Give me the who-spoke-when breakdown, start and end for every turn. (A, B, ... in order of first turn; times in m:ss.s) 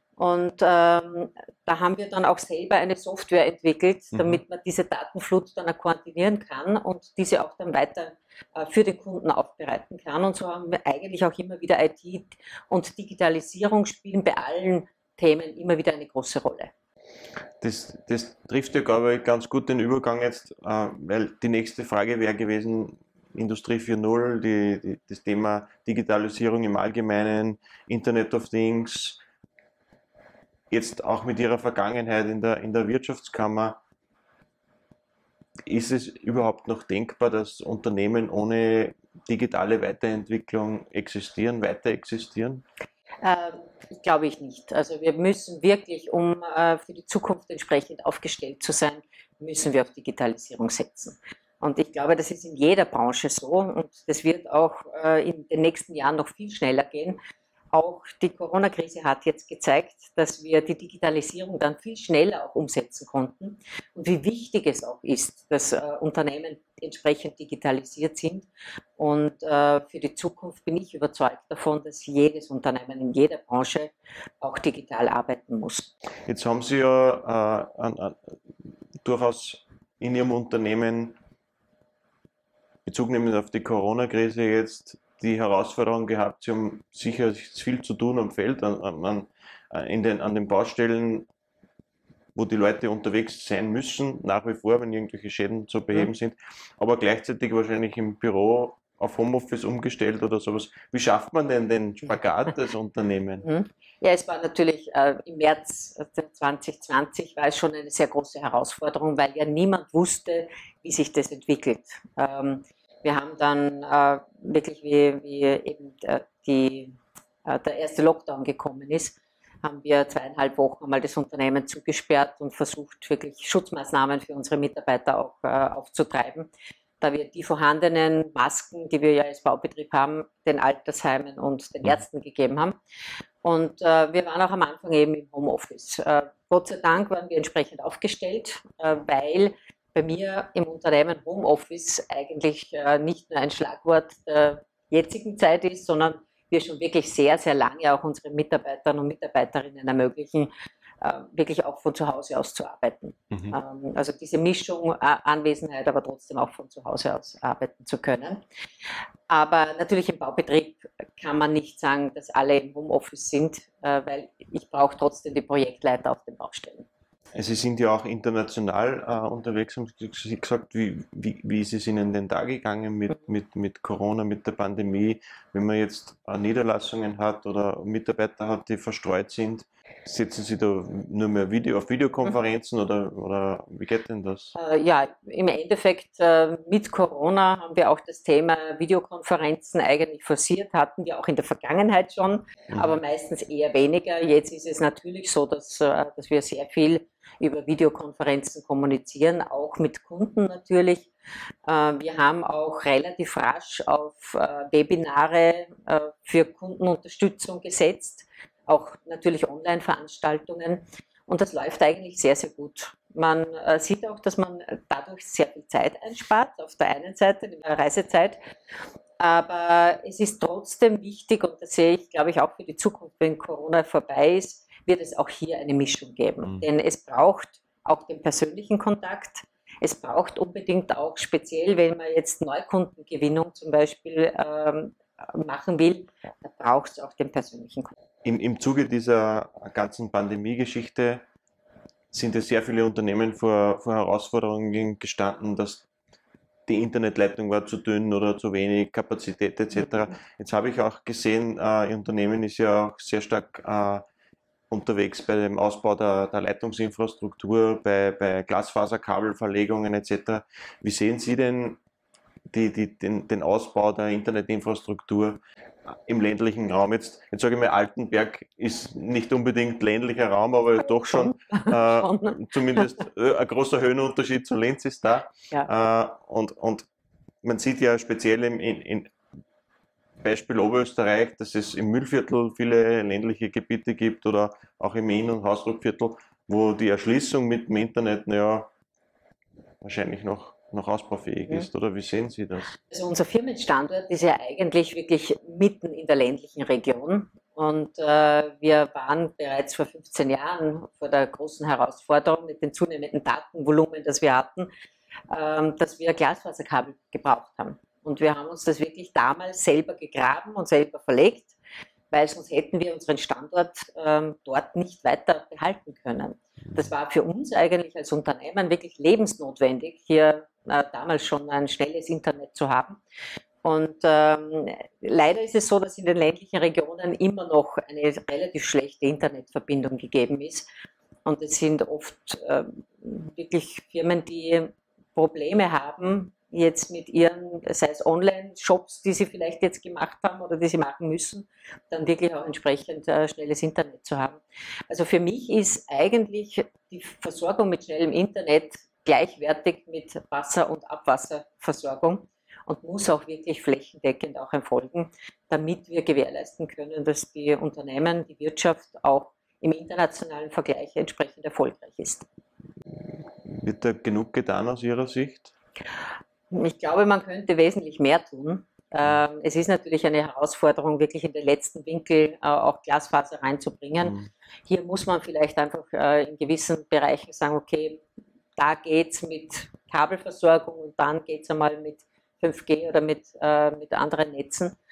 0:00.2-0:16.7 A
0:04.1-0:04.4 B
0:17.6-0:29.2 B
0:30.7-0:33.8 B
0:35.7-0:42.6 B
0:43.2-0:57.2 A
0:57.7-1:15.9 A
1:16.2-1:18.4 B
1:19.0-1:21.2 B
1:22.8-1:31.3 B
1:32.3-1:43.4 B
1:43.4-2:06.5 A
2:07.0-2:12.8 A
2:13.4-2:38.4 A
2:33.3-2:33.6 B
2:39.3-2:46.8 A
2:47.3-3:04.5 B
3:04.5-3:21.1 A
3:12.7-3:13.0 B
3:21.6-3:38.4 A
3:39.2-3:57.9 A
3:58.2-4:01.2 B
4:02.1-4:05.8 B
4:06.7-4:14.0 B
4:14.7-4:21.8 B
4:22.5-4:36.9 B
4:30.8-4:33.0 A
4:37.4-4:39.1 B
4:40.2-4:48.7 B
4:49.8-4:52.7 B
4:52.8-5:04.7 A
5:05.3-5:11.5 A
5:12.1-5:23.0 A
5:23.6-5:30.6 A
5:31.2-6:02.2 A
6:02.9-6:05.5 B
6:06.5-6:14.2 A
6:14.0-6:14.3 B
6:14.7-6:18.0 A
6:18.6-6:24.8 A